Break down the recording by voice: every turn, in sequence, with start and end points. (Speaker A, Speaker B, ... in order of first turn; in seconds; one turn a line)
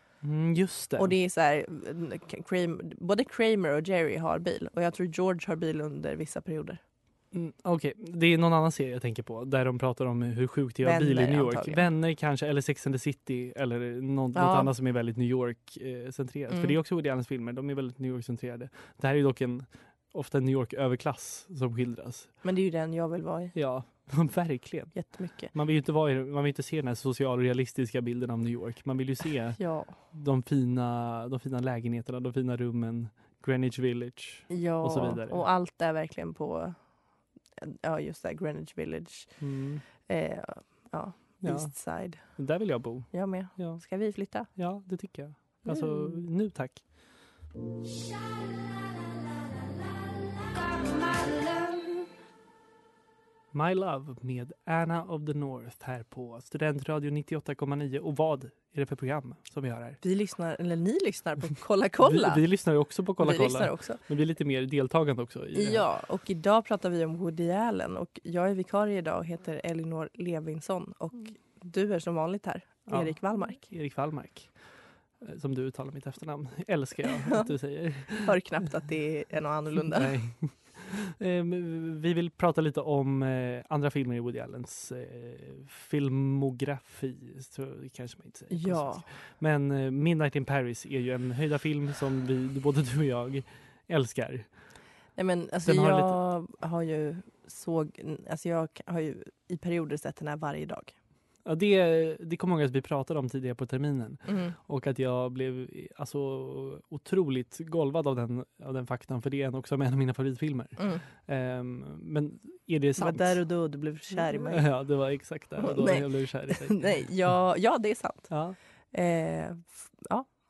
Speaker A: 0.2-1.1
Speaker B: 1.0-6.8
Speaker A: 7.3-22.3
Speaker B: 10.8-11.9
Speaker B: 14.3-14.7
Speaker B: 16.5-16.8
Speaker B: 22.4-23.5
Speaker A: 23.5-35.4
Speaker B: 24.9-25.5
Speaker B: 29.6-30.0
Speaker B: 34.5-36.8
Speaker B: 37.6-39.4
Speaker A: 39.4-39.8
Speaker B: 40.0-42.4
Speaker A: 41.4-43.8
Speaker B: 43.1-44.5
Speaker A: 44.5-46.8
Speaker B: 45.7-46.2
Speaker A: 53.5-60.0
Speaker B: 60.0-62.4
Speaker A: 62.0-65.8
Speaker B: 63.2-64.0
Speaker B: 65.5-73.6
Speaker A: 72.9-74.5
Speaker A: 75.2-78.3
Speaker B: 77.0-77.5
Speaker B: 78.2-80.2
Speaker A: 79.8-94.5
Speaker B: 88.5-89.0
Speaker B: 95.2-101.0
Speaker A: 95.6-96.1
Speaker A: 101.4-113.4
Speaker B: 104.3-104.5
Speaker B: 110.8-111.0
Speaker B: 113.0-114.7
Speaker A: 114.2-116.8
Speaker B: 115.6-118.3
Speaker A: 118.3-118.6
Speaker B: 118.9-120.2